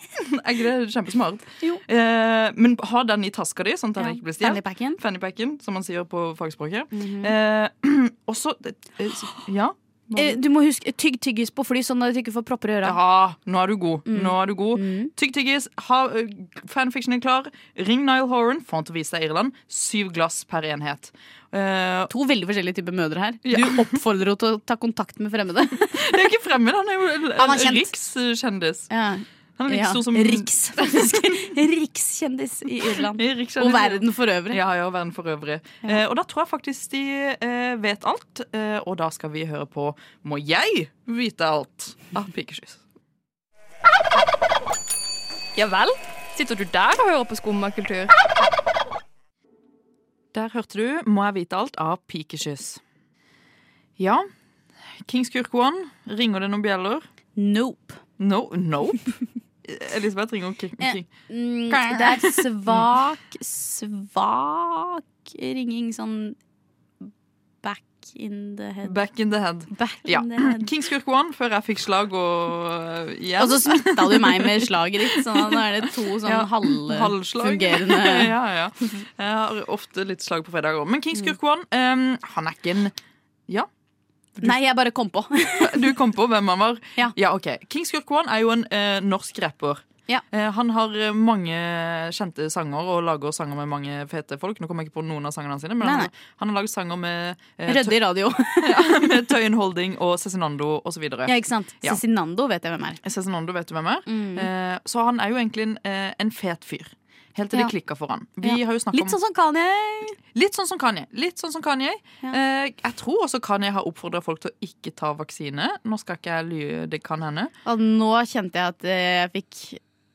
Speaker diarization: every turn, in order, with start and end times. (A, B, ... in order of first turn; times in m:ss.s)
0:00.2-0:10.4 A
0:04.0-0:05.0 B
0:06.9-0:07.3 B
0:10.1-0:13.0 B
0:12.8-0:22.1 A
0:14.1-0:15.1 B
0:22.1-0:26.2 B
0:23.4-0:23.9 A
0:25.8-0:28.9 A
0:27.4-0:27.9 B
0:28.9-0:34.6 B
0:29.6-0:31.3 A
0:32.8-0:42.8 A
0:45.5-0:48.1 C
0:50.3-0:52.8 A
0:54.0-0:54.2 A
0:55.0-0:57.0 A
0:57.4-0:58.0 B
0:58.2-1:01.1 A
1:00.8-1:06.4 B
1:01.7-1:02.8 A
1:07.6-1:09.0 B
1:08.8-1:22.9 A
1:09.7-1:10.7 B
1:13.4-1:18.3 B
1:24.4-1:25.9 B
1:25.6-1:42.0 A
1:35.8-1:36.1 B
1:37.6-1:39.1 B
1:41.2-1:43.0 B
1:43.0-1:49.2 A
1:44.1-1:44.5 B
1:48.4-1:50.2 B
1:50.3-1:57.5 A
1:57.6-1:59.8 B